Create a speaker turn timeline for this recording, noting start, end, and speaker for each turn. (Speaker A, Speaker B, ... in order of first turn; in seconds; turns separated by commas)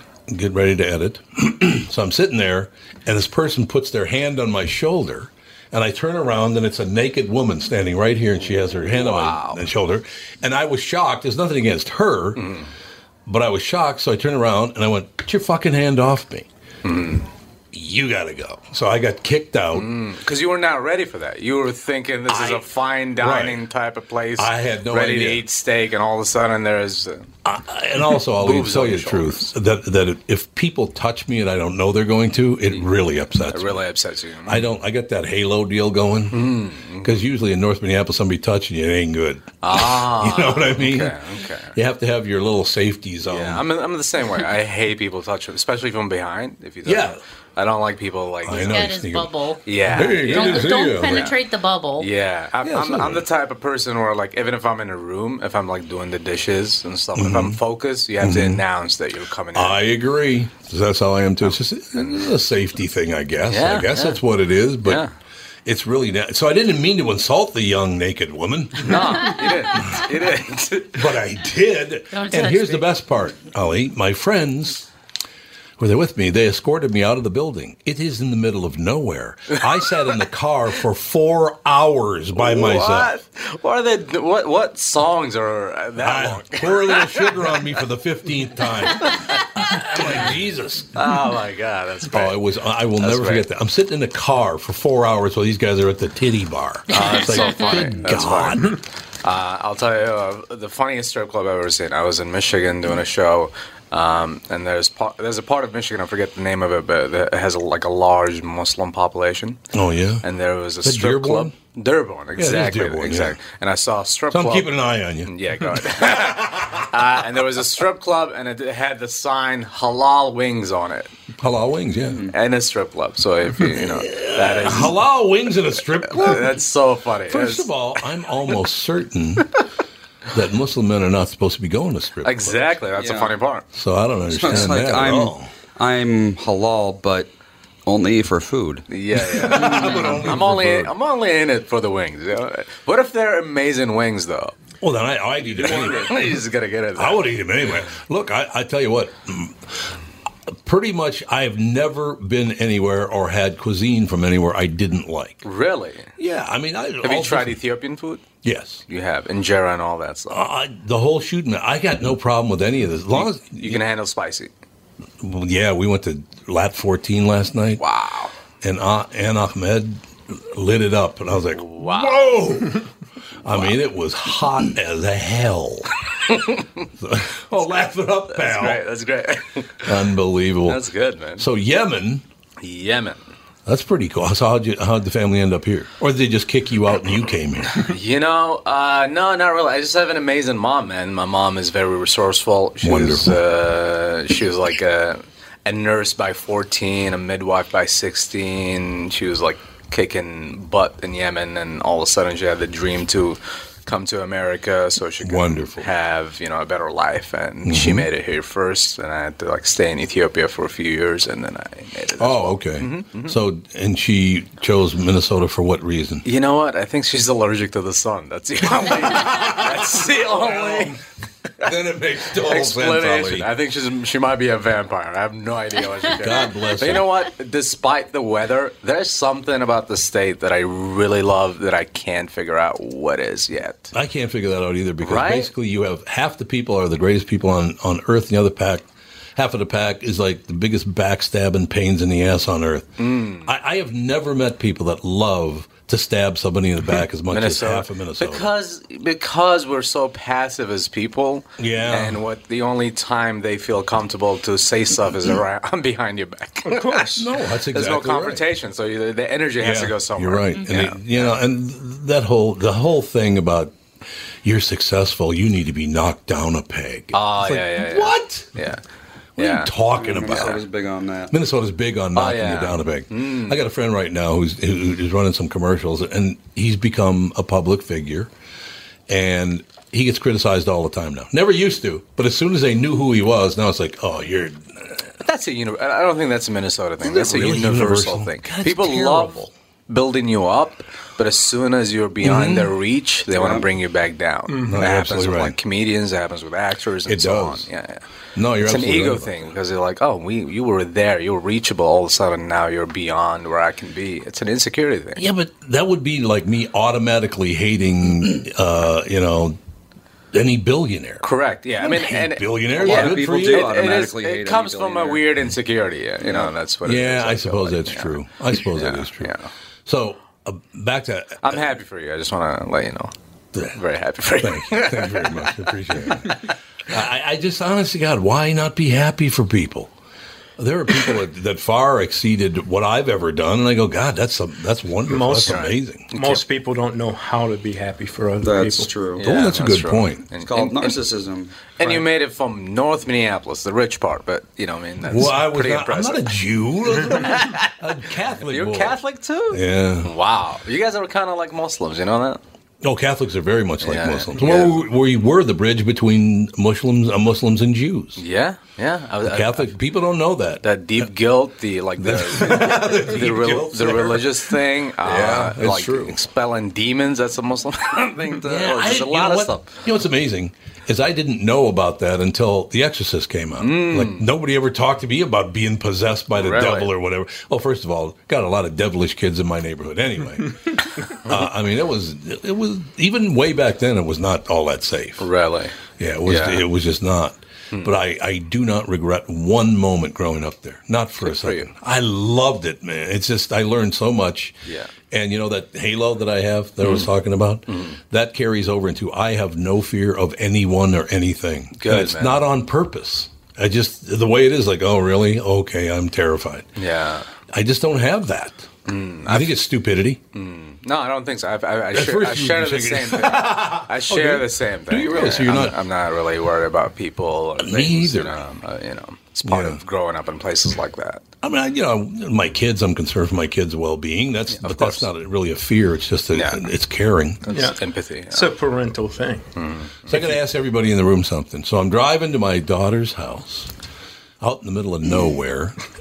Speaker A: 0.3-12.4, Speaker B: 8.7-9.6, Speaker B: 12.4-12.7, Speaker A: 13.2-16.5, Speaker B: 16.8-17.3, Speaker A: 17.7-19.9, Speaker B: 19.7-27.3, Speaker A: 22.3-22.6, Speaker A: 23.2-23.6, Speaker A: 24.4-25.4, Speaker A: 27.4-33.8, Speaker B: 28.1-29.5, Speaker B: 33.5-34.7, Speaker A: 34.5-36.5, Speaker B: 36.3-37.2, Speaker A: 37.0-41.1, Speaker B: 39.6-41.7, Speaker A: 41.7-43.6, Speaker B: 43.2-49.0, Speaker A: 46.8-47.2, Speaker A: 48.4-49.3, Speaker C: 48.6-52.1, Speaker B: 49.6-51.4, Speaker A: 49.9-51.3, Speaker B: 52.0-59.8, Speaker A: 52.6-53.2, Speaker A: 57.1-57.6, Speaker A: 58.2-58.6, Speaker A: 59.5-65.0, Speaker B: 61.4-62.4, Speaker B: 63.5-64.2, Speaker B: 64.8-65.1, Speaker A: 65.7-70.1, Speaker B: 68.8-71.0, Speaker A: 70.9-74.9, Speaker C: 72.1-72.9, Speaker A: 75.8-83.1, Speaker B: 82.3-87.8, Speaker A: 86.0-91.1, Speaker B: 89.0-89.3, Speaker B: 89.9-90.3, Speaker B: 90.9-92.4, Speaker A: 92.1-98.8, Speaker B: 93.0-93.5, Speaker B: 96.9-109.6, Speaker C: 96.9-97.9, Speaker A: 109.7-110.2, Speaker B: 110.2-114.7, Speaker A: 110.8-111.5, Speaker A: 112.3-113.4, Speaker A: 114.3-116.8, Speaker B: 115.2-121.1, Speaker A: 121.4-122.3, Speaker B: 122.3-125.0, Speaker A: 123.7-126.5, Speaker B: 126.0-127.7, Speaker A: 127.3-129.5, Speaker A: 130.3-132.7, Speaker B: 132.2-133.6, Speaker D: 132.9-133.3, Speaker A: 133.7-135.5, Speaker D: 134.3-137.3, Speaker B: 134.4-134.8, Speaker D: 137.8-138.8, Speaker B: 138.9-144.5, Speaker A: 139.2-140.9, Speaker A: 144.8-146.2, Speaker B: 145.5-147.3, Speaker A: 147.0-149.7, Speaker A: 150.6-155.4, Speaker B: 155.4-156.1, Speaker A: 156.2-157.6, Speaker B: 157.0-158.3, Speaker A: 158.4-158.8, Speaker B: 158.9-160.4, Speaker A: 160.3-163.8, Speaker B: 163.2-164.5, Speaker A: 165.2-167.8, Speaker B: 167.8-168.3, Speaker A: 168.6-172.8, Speaker B: 171.5-172.4, Speaker A: 173.4-175.9, Speaker B: 173.5-173.8, Speaker A: 177.0-178.8, Speaker B: 177.7-179.9, Speaker A: 179.8-180.8, Speaker B: 180.6-181.5, Speaker A: 181.4-182.2, Speaker B: 182.6-183.2, Speaker A: 183.7-187.8, Speaker B: 187.8-213.4, Speaker A: 192.8-193.3, Speaker A: 205.2-205.9, Speaker A: 207.6-208.1, Speaker A: 212.2-216.2, Speaker B: 216.2-221.0, Speaker A: 219.1-221.0, Speaker A: 221.6-223.4, Speaker B: 222.4-233.9, Speaker A: 226.1-227.1, Speaker A: 233.9-242.9, Speaker B: 235.0-235.5, Speaker B: 243.0-243.5, Speaker A: 243.4-248.4, Speaker B: 247.3-257.0, Speaker A: 251.6-252.2, Speaker E: 256.6-257.3, Speaker A: 257.2-258.4, Speaker B: 257.7-261.4, Speaker A: 259.6-263.7, Speaker A: 264.4-268.5, Speaker B: 267.1-268.8, Speaker B: 269.4-269.7, Speaker A: 269.4-270.6, Speaker D: 269.9-271.3, Speaker A: 271.3-278.3, Speaker B: 272.1-273.6, Speaker A: 279.1-285.1, Speaker B: 285.2-298.0, Speaker A: 287.0-289.5, Speaker A: 292.2-292.7, Speaker D: 293.3-293.6, Speaker E: 294.5-294.8, Speaker A: 294.6-295.6, Speaker A: 297.1-297.7, Speaker A: 298.3-299.5, Speaker B: 298.6-305.2, Speaker A: 305.2-309.6, Speaker A: 310.3-313.9, Speaker B: 311.2-319.5, Speaker D: 312.7-315.3, Speaker D: 316.2-316.5, Speaker A: 316.9-319.3, Speaker A: 319.9-321.6, Speaker B: 321.4-323.1, Speaker A: 323.5-323.8, Speaker B: 323.7-325.5, Speaker A: 324.4-329.9, Speaker A: 330.6-336.1, Speaker E: 335.1-338.9, Speaker B: 335.4-336.4, Speaker D: 338.4-339.3, Speaker B: 339.2-341.0, Speaker A: 339.2-340.2, Speaker D: 340.4-341.6, Speaker B: 341.8-346.2, Speaker A: 345.0-349.0, Speaker B: 347.1-347.7, Speaker B: 348.4-352.4, Speaker A: 349.5-350.1, Speaker A: 352.8-358.2, Speaker B: 353.8-354.8, Speaker B: 358.2-359.7, Speaker A: 359.2-360.6, Speaker B: 360.6-369.8, Speaker A: 362.0-366.2, Speaker A: 368.4-380.6, Speaker B: 373.6-374.2, Speaker B: 376.3-376.9, Speaker A: 381.1-385.2, Speaker B: 385.2-386.6, Speaker A: 386.0-394.6, Speaker B: 391.2-391.7, Speaker A: 395.1-406.7, Speaker B: 396.8-397.1, Speaker B: 397.7-397.9, Speaker B: 401.7-402.4, Speaker B: 406.8-407.3, Speaker A: 407.5-408.7, Speaker B: 408.9-409.6, Speaker A: 409.3-410.2, Speaker B: 410.3-421.2, Speaker A: 411.9-415.8, Speaker A: 417.6-418.4, Speaker A: 419.5-419.8, Speaker A: 421.4-427.4, Speaker B: 424.5-425.1, Speaker B: 426.3-426.7, Speaker B: 427.4-428.5, Speaker E: 427.5-427.8, Speaker E: 428.3-429.4, Speaker B: 429.6-430.3, Speaker A: 430.1-433.7, Speaker A: 434.4-435.8